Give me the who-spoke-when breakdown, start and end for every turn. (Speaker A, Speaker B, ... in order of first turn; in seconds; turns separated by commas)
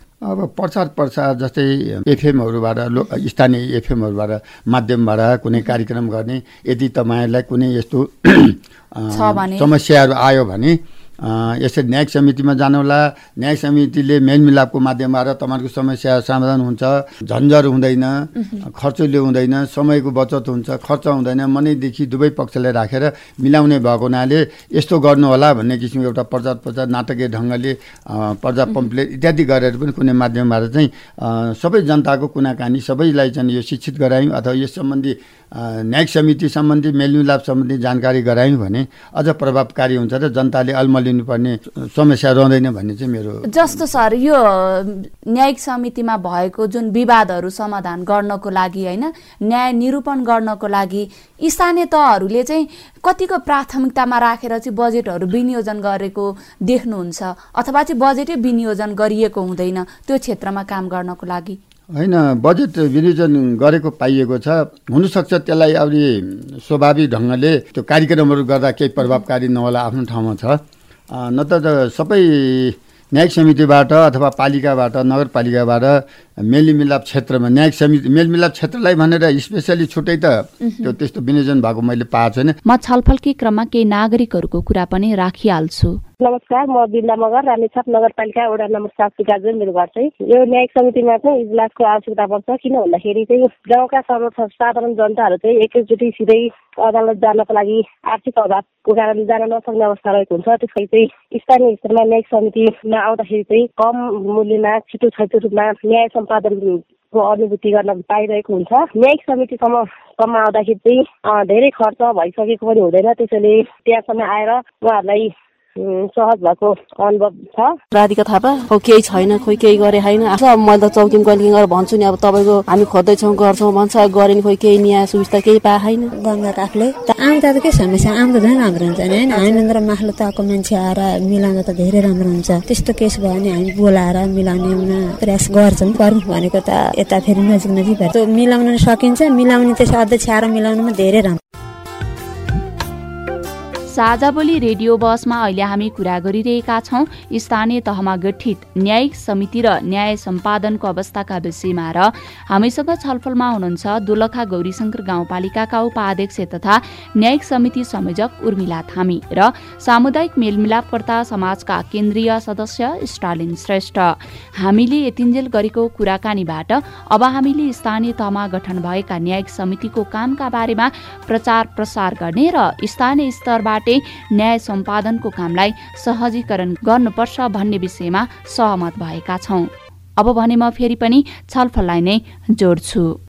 Speaker A: 0.2-44.0, Speaker B: 9.1-9.7, Speaker B: 43.5-61.6, Speaker A: 61.9-70.6, Speaker A: 71.1-82.5, Speaker B: 80.6-80.9, Speaker C: 82.6-86.0, Speaker D: 86.2-117.8, Speaker E: 117.9-126.1, Speaker F: 126.1-141.4, Speaker C: 143.9-183.2